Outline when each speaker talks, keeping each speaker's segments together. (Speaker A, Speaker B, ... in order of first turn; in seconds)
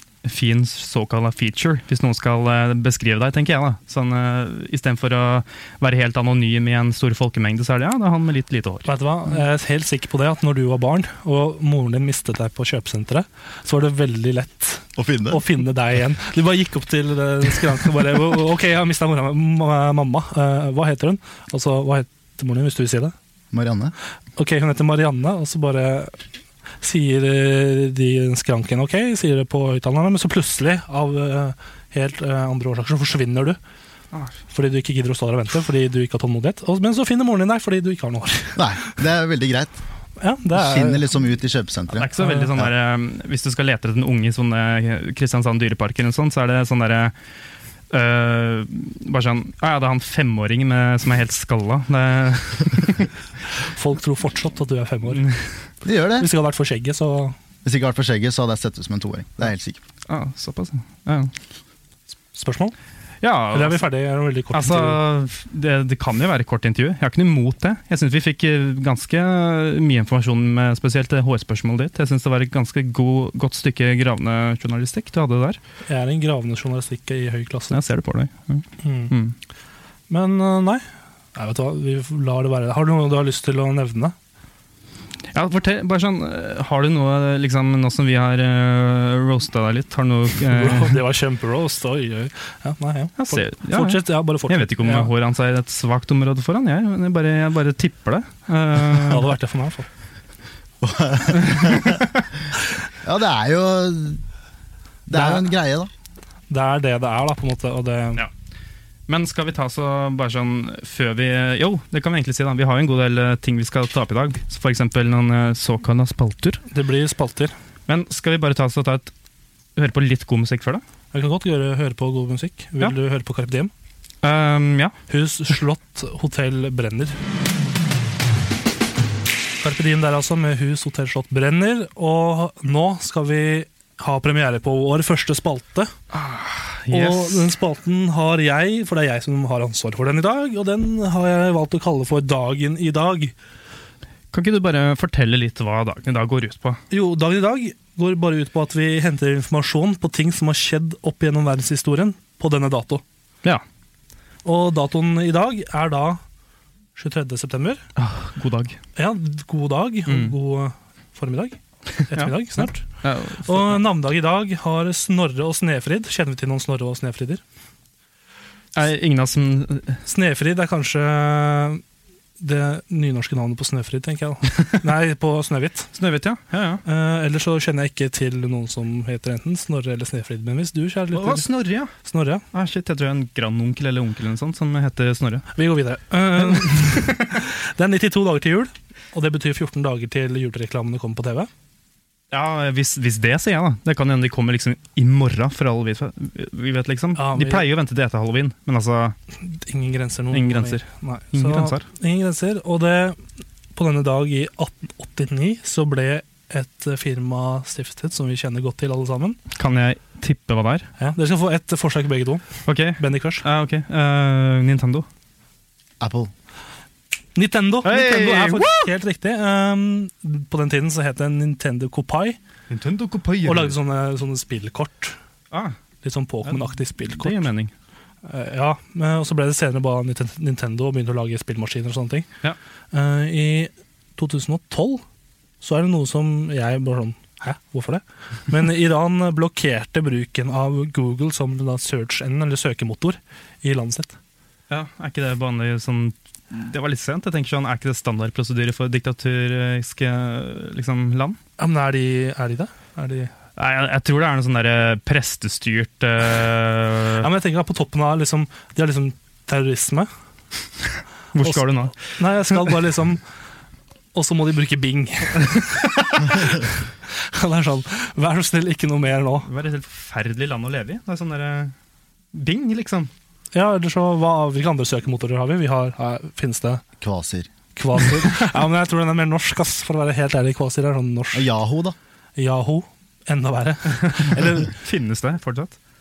Speaker A: 0.2-8.9, 42.0-47.1, 47.9-53.1, 60.1-61.3, 63.2-63.9, 64.5-75.6, 77.7-79.3, 85.3-91.0, 93.2-99.3, 101.5-102.0, 109.1-116.6, 117.9-119.1, 119.8-120.8, 124.2-124.9, 136.1-137.5, 144.3-146.8, 158.0-158.8, 160.1-160.3, 162.0-163.8, 168.8-170.0, 176.0-176.8, 181.1-181.9, 182.5-185.5, 186.5-187.2, 192.3-199.2, 200.3-201.8, 209.6-210.9, 212.7-215.1, 217.8-218.9, 222.7-223.8, 225.5-225.8, 227.1-227.7, 244.7-251.4, 253.6-257.3, 261.4-262.1, 265.8-266.4, 269.5-271.7, 272.3-273.1, 284.1-285.8
Speaker B: 8.9-23.1, 24.4-26.2, 26.8-33.6, 34.5-39.0, 40.2-41.1, 42.2-42.5, 53.6-55.3, 56.2-57.4, 62.3-62.7, 63.5-65.0, 75.9-77.8, 78.8-79.1, 80.1-80.8, 81.3-84.2, 90.5-95.1, 98.9-99.9, 105.1-105.5, 106.5-108.2, 116.7-117.5, 121.1-123.7, 125.1-127.2, 129.6-135.9, 136.9-143.3, 146.9-153.0, 154.4-156.2, 157.0-157.8, 159.0-162.8, 163.4-167.4, 170.1-171.8, 172.4-175.9, 176.8-181.4, 182.0-182.5, 185.6-191.5, 197.2-197.7, 199.4-203.2, 203.8-209.4, 211.0-213.4, 217.4-222.4, 223.4-225.2, 226.0-227.5, 228.2-232.3, 232.9-235.0, 235.6-244.2, 251.6-253.3, 257.2-260.1, 261.4-263.2, 264.1-269.5, 273.5-276.8, 277.8-281.5, 282.4-284.7
Speaker C: 15.0-15.4, 23.5-23.9, 38.6-39.8, 40.5-42.7, 55.8-56.3, 57.6-59.8, 100.8-102.1, 103.0-104.2, 105.1-105.9, 216.0-216.3, 277.0-277.5, 281.3-282.0